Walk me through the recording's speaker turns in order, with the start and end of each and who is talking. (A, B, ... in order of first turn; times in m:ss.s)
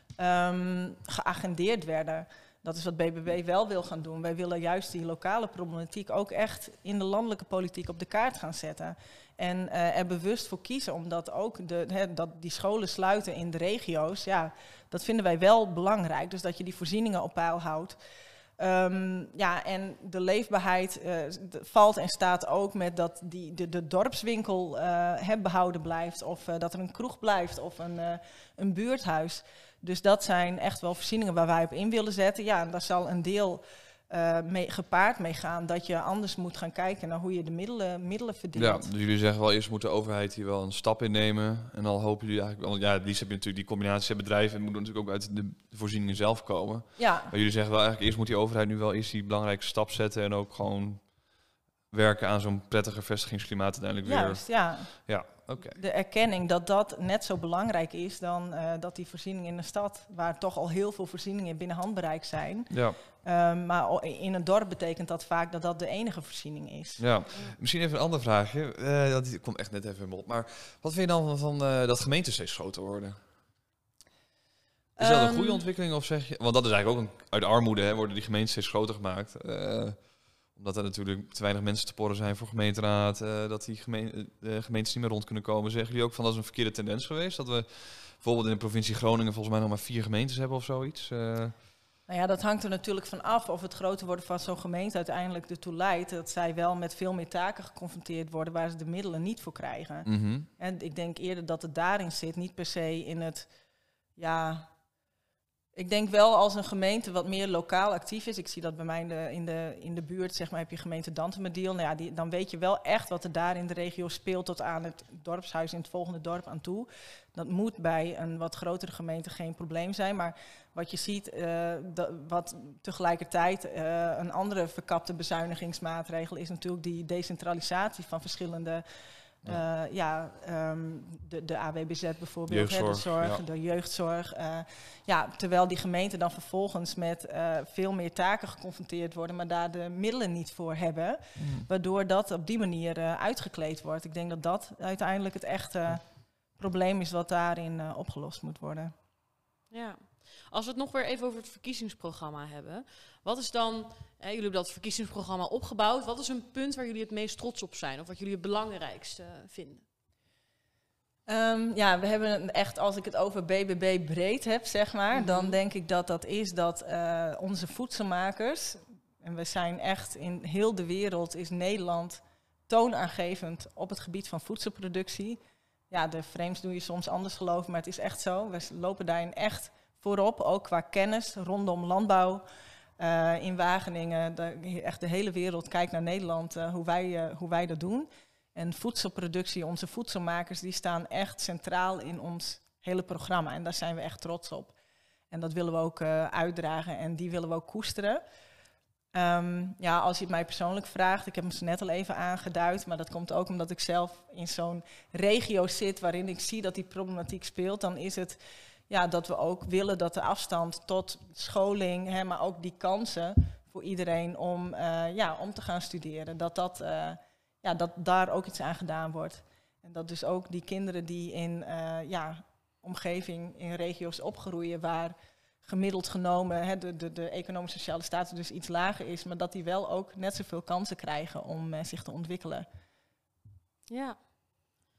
0:00.2-0:18.0 A
0:18.6-0:38.9 A
0:38.6-0:51.2 B
0:47.0-0:47.3 A
0:51.9-0:55.8 B
0:54.0-1:07.1 A
1:02.7-1:03.0 B
1:07.0-1:13.2 B
1:15.0-1:31.6 B
1:15.0-1:15.6 A
1:32.1-1:43.5 A
1:40.1-1:40.5 B
1:44.2-1:44.7 A
1:45.8-2:08.8 A
2:09.4-2:28.9 A
2:12.5-2:13.4 B
2:21.4-2:21.7 B
2:29.7-2:39.8 C
2:41.3-3:02.4 A
2:45.1-2:45.6 C
3:03.0-3:14.7 A
3:15.3-3:18.2 A
3:19.1-3:28.4 A
3:28.9-3:52.7 A
3:53.9-3:54.3 C